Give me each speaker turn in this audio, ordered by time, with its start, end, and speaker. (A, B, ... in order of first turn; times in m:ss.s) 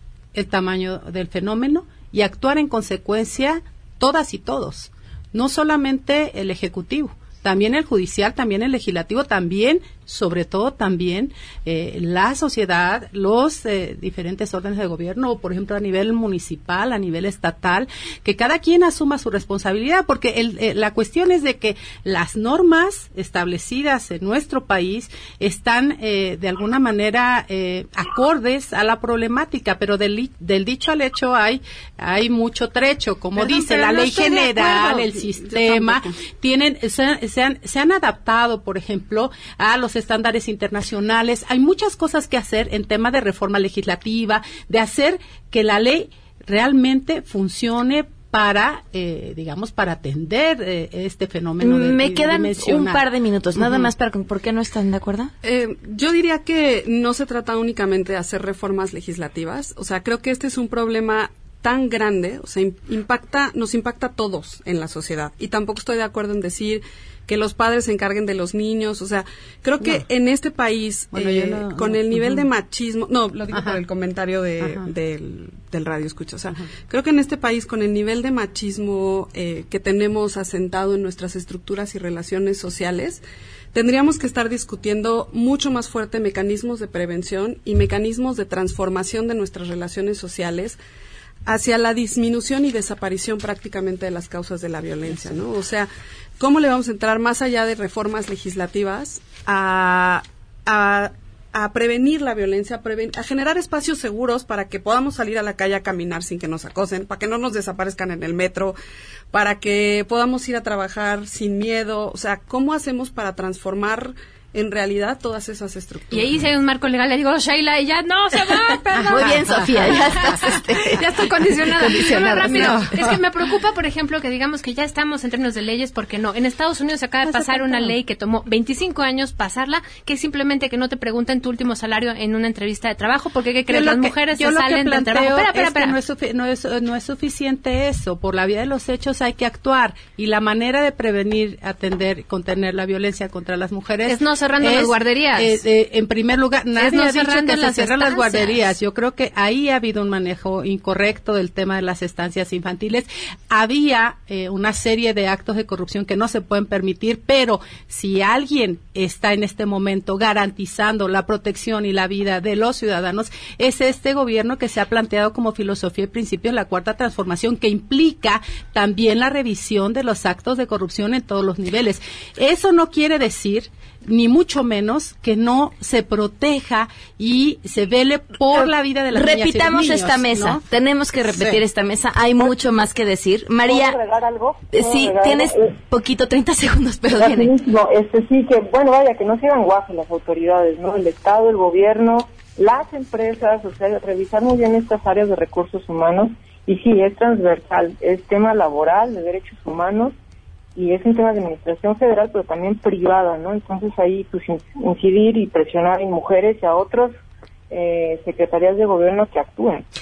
0:00.3-0:53.9 A
0:33.4-0:36.2 B
0:51.6-0:55.3 C
0:55.4-1:30.8 B
1:09.8-1:10.1 A
1:11.1-1:12.5 A
1:14.6-1:14.9 A
1:31.4-1:48.8 B
1:49.3-1:56.4 B
1:56.1-2:16.0 D
1:59.1-2:02.8 C
2:02.4-2:03.2 A
2:07.2-2:08.0 A
2:13.7-3:00.6 A
2:24.0-2:25.6 D
2:26.8-2:28.8 D
2:59.1-3:04.0 C
3:01.3-3:01.6 A
3:03.6-3:05.8 E
3:04.7-3:07.5 C
3:07.2-3:20.2 E
3:20.8-3:27.1 E
3:27.7-3:29.8 E